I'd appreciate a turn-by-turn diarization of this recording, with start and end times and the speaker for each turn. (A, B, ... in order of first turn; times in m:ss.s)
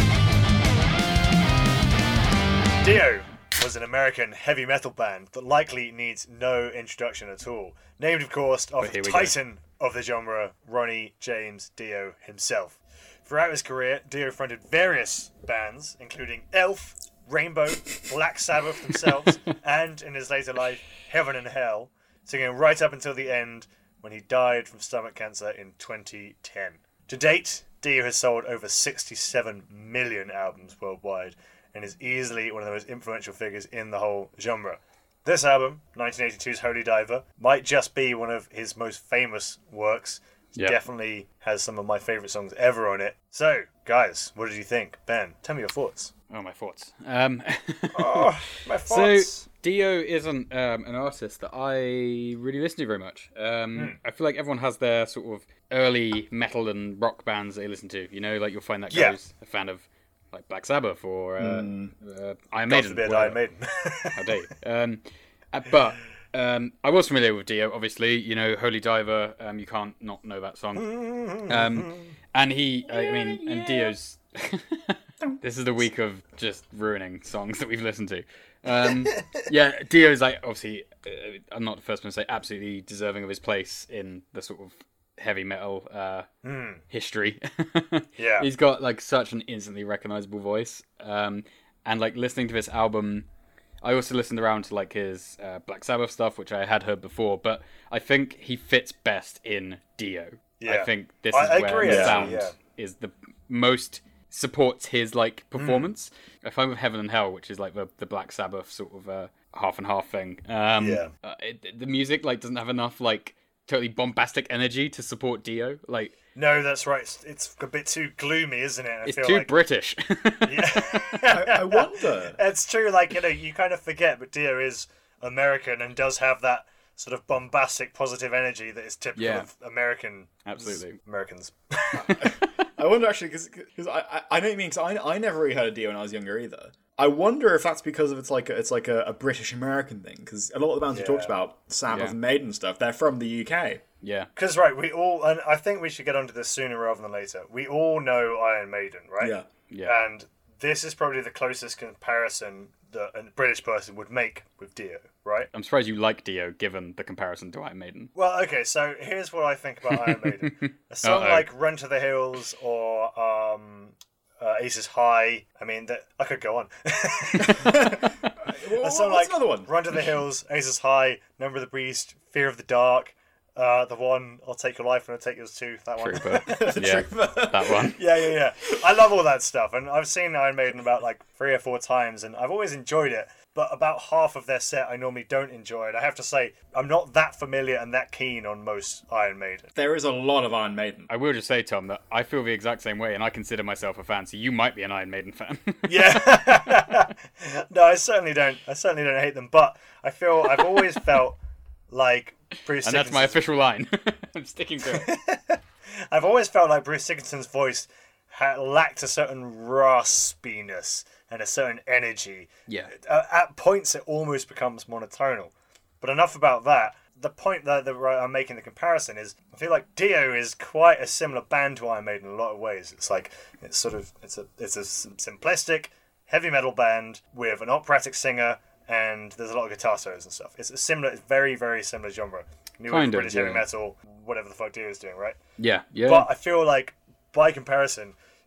0:02.8-0:46.1 A
0:08.8-0:09.3 B
0:46.3-1:03.4 B
0:47.9-0:49.4 A
0:58.9-0:59.2 A
1:01.4-1:01.9 C
1:02.7-1:04.2 A
1:04.1-1:26.3 B
1:10.8-1:12.1 A
1:12.9-1:13.9 C
1:19.2-1:19.4 A
1:26.4-1:26.8 A
1:26.9-1:33.2 B
1:28.2-1:28.5 A
1:33.8-1:56.1 B
1:40.6-1:42.5 A
1:41.8-1:42.3 C
1:45.6-1:45.9 A
1:50.8-1:51.1 A
1:56.4-1:59.5 A
1:59.0-2:01.0 B
2:00.4-2:10.4 A
2:01.3-2:02.4 C
2:09.2-2:09.5 B
2:10.4-2:11.0 B
2:11.0-2:12.3 A
2:12.0-2:23.8 C
2:20.9-2:21.3 A
2:24.0-2:24.3 B
2:24.4-2:35.5 A
2:29.2-2:29.5 C
2:29.7-2:30.0 B
2:35.5-2:38.1 B
2:38.1-2:48.0 A
2:39.9-2:41.5 B
2:47.5-2:49.7 C
2:48.8-2:56.8 A
2:56.0-2:58.0 B
2:56.4-2:58.0 C
2:57.9-3:09.7 A
3:09.7-3:11.1 C
3:11.1-3:16.3 B
3:15.8-3:21.4 A
3:21.9-3:23.4 A
3:22.8-3:25.1 B
3:24.9-3:55.4 A
3:52.9-3:53.6 B
3:55.6-3:56.3 B
3:56.0-3:58.1 A